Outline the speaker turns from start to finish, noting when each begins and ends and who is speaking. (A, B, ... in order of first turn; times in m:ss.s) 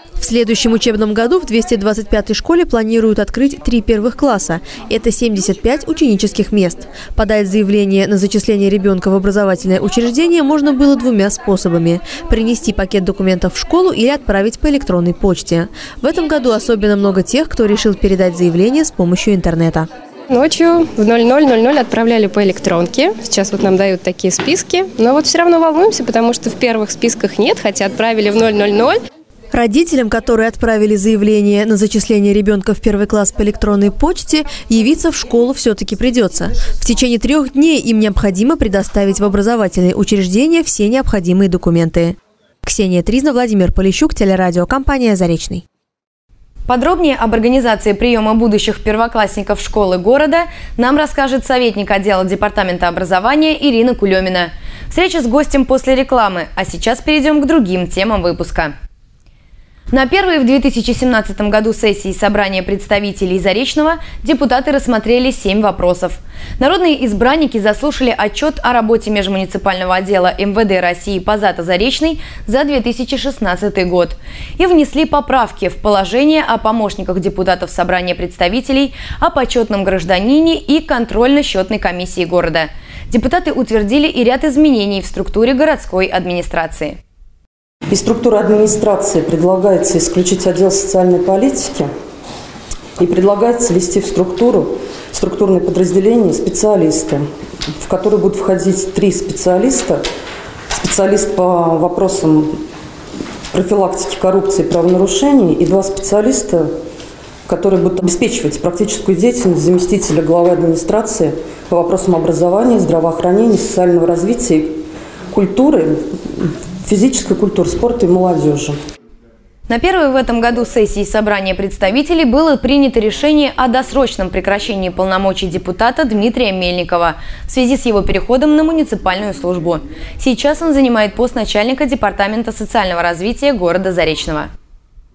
0:00.2-0:19.9 A
0:20.3-0:29.0 B
0:29.5-0:45.6 A
0:46.7-0:58.7 C
0:59.9-1:27.0 C
1:27.9-1:31.9 D
1:33.0-1:37.2 D
1:37.8-1:40.0 D
1:40.7-1:42.6 D
1:43.5-1:46.7 D
1:47.4-1:58.8 D
1:59.7-2:14.5 C